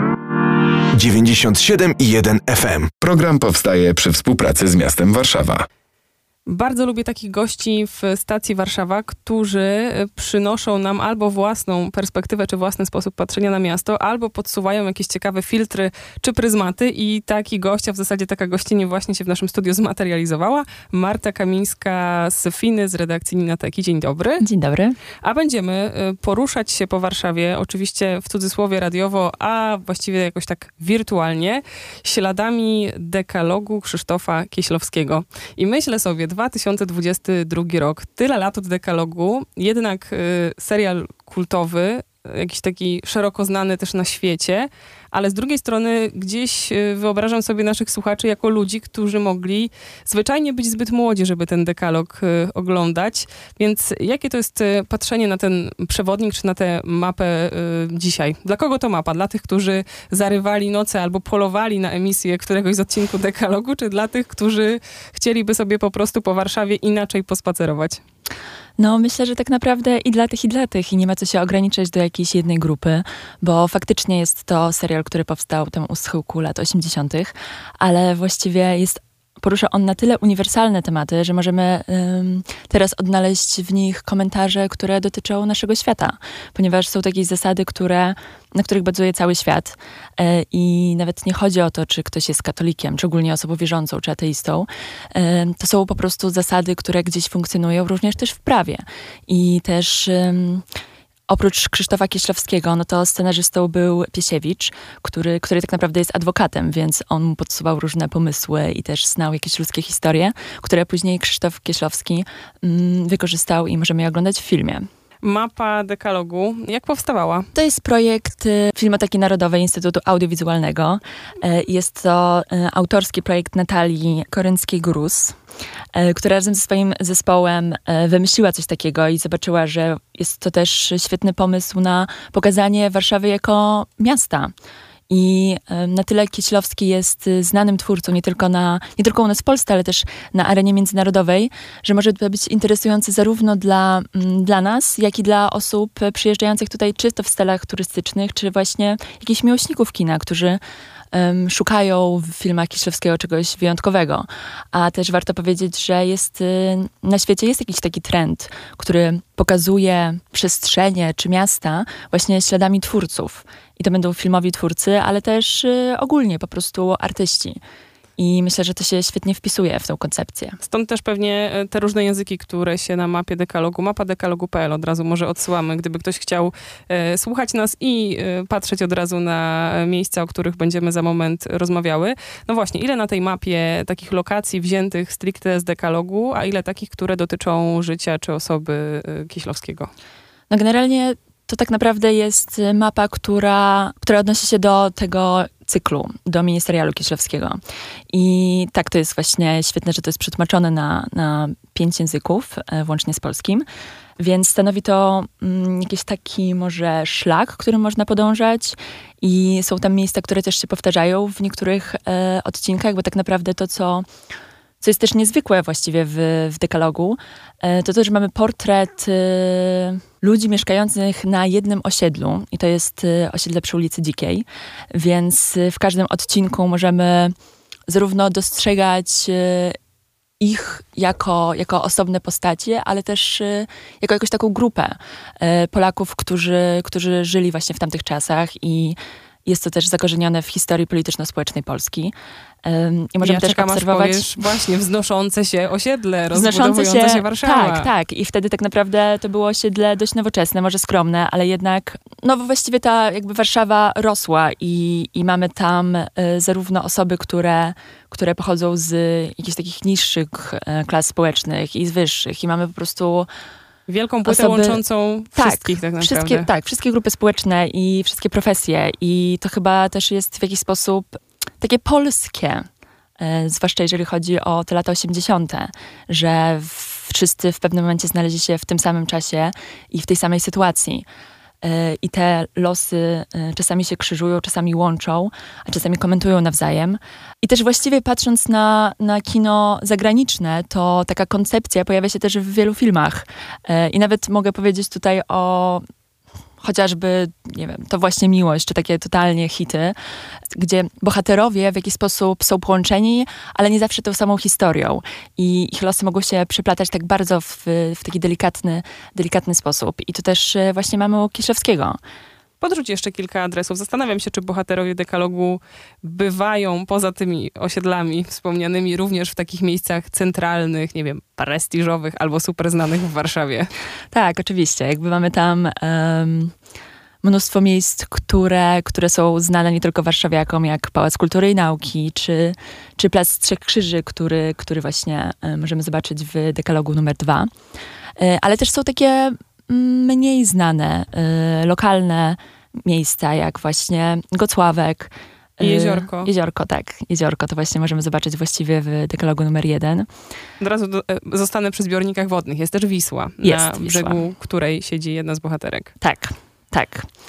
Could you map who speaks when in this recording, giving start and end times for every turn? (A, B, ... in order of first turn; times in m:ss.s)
0:01.0-0:02.9 A
0:03.0-0:05.7 B
0:06.5-0:24.4 C
0:24.5-0:24.9 D
0:25.2-1:08.0 C
1:08.8-1:40.6 D
1:41.3-1:54.9 D
1:55.2-1:57.5 C
1:57.6-2:05.4 D
2:06.0-2:14.5 D
2:15.1-2:30.6 D
2:31.1-2:47.6 D
2:48.2-2:50.5 D
2:50.6-3:09.9 C
3:10.5-3:17.6 D
3:18.1-3:23.7 D
3:24.2-3:34.1 D
3:34.8-3:47.3 D
3:47.9-3:49.8 D
3:50.4-4:02.1 D
4:02.6-4:04.2 D
4:03.2-4:07.9 C
4:06.4-4:23.3 D
4:23.9-4:26.5 C
4:24.3-4:24.8 D
4:25.5-4:32.6 D
4:33.2-4:41.1 D
4:41.6-4:55.8 D
4:56.6-5:00.0 D
5:00.5-5:12.0 D
5:12.6-5:23.7 C
5:24.1-5:26.5 D
5:27.2-5:37.5 D
5:38.2-5:45.1 D
5:45.6-5:46.3 C
5:45.6-5:50.1 D
5:50.6-5:55.9 C
5:53.4-5:54.2 D
5:56.0-5:57.1 D